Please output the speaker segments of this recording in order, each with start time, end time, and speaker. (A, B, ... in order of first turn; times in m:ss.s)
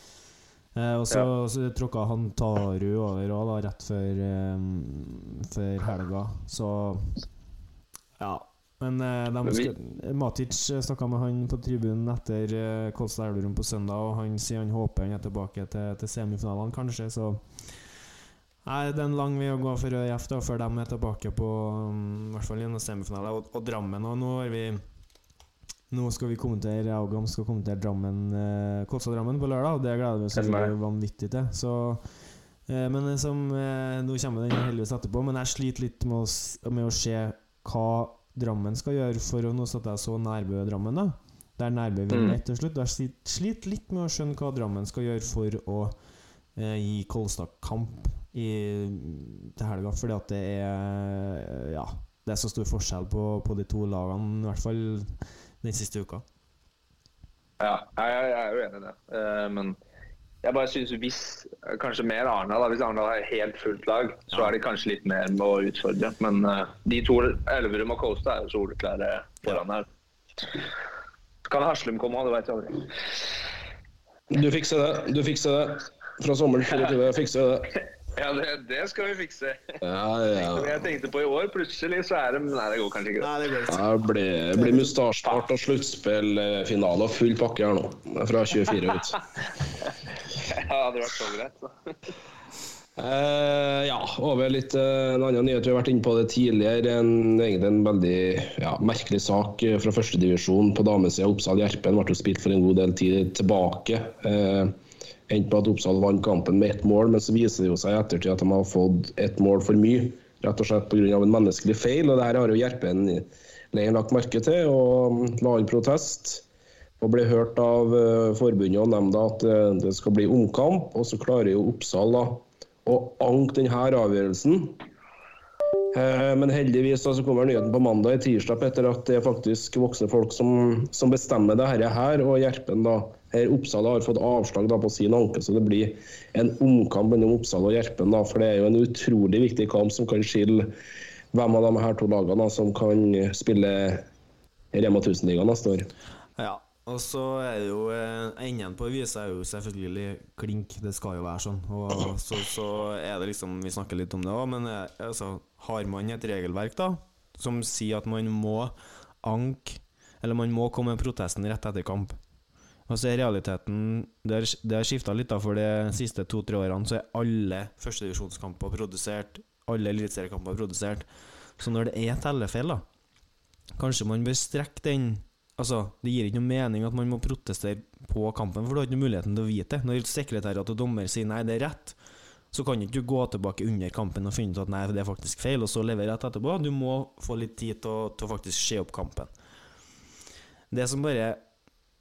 0:00.7-0:07.2 A
0:08.2-0:17.4 A
0:09.4-0:09.7 B
0:18.6-0:24.8 A
0:25.9-0:32.1 A
0:30.4-0:30.7 B
0:32.7-0:46.0 A
0:42.1-0:42.4 B
0:46.6-0:56.2 A
0:57.6-0:59.8 B
1:00.4-1:09.8 B
1:11.4-1:12.9 B
1:14.3-1:17.7 C
1:18.1-1:19.8 B
1:19.8-1:20.9 C
1:20.4-1:23.3 B
1:23.2-1:23.8 A
1:23.7-1:29.2 C
1:24.5-1:24.9 A
1:30.4-1:32.1 B
1:33.0-1:44.7 C
1:45.3-1:56.4 C
1:57.0-2:04.8 C
2:05.9-2:20.7 C
2:21.3-2:24.0 C
2:24.7-2:25.9 C
2:26.4-2:42.2 A
2:42.9-2:51.1 A
2:51.6-2:52.8 A
2:53.8-3:02.0 A
3:02.5-3:09.3 A
3:10.7-3:11.4 A